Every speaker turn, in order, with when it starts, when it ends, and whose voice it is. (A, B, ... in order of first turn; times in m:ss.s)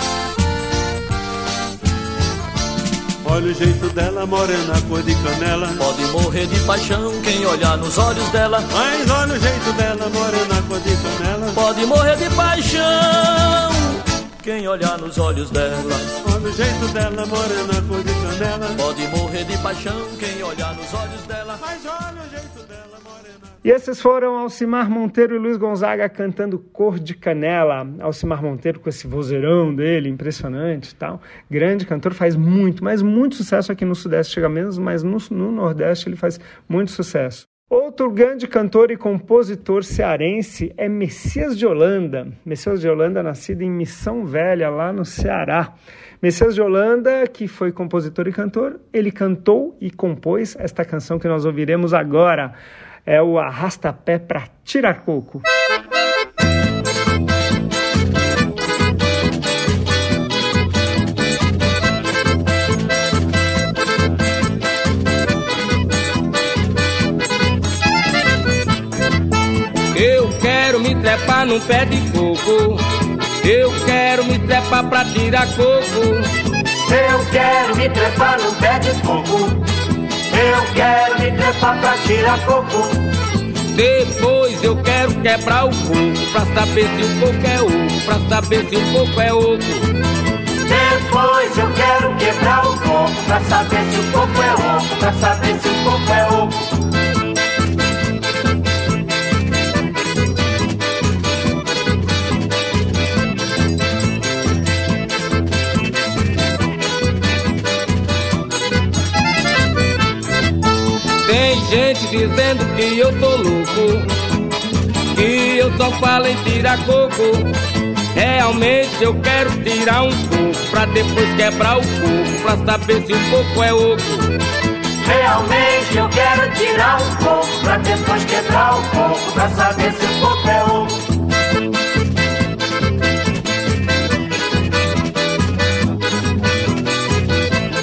0:03.2-0:05.8 A
0:05.8-0:08.6 B
0:08.7-0:11.6 A
0:11.5-0:16.1 B
0:16.2-0:18.8 A
0:18.8-0:21.6 B
0:21.6-0:23.5 A
0:23.6-0:52.5 C
0:53.0-0:55.4 C
1:09.9-1:12.8 D
1:13.4-1:16.3 D
1:16.9-1:19.6 E
1:20.3-1:22.9 E
1:23.7-1:29.9 D
1:30.7-1:36.5 E
1:51.2-1:54.1 D
1:55.1-1:57.5 D
1:58.1-2:04.3 D
2:05.0-2:10.9 E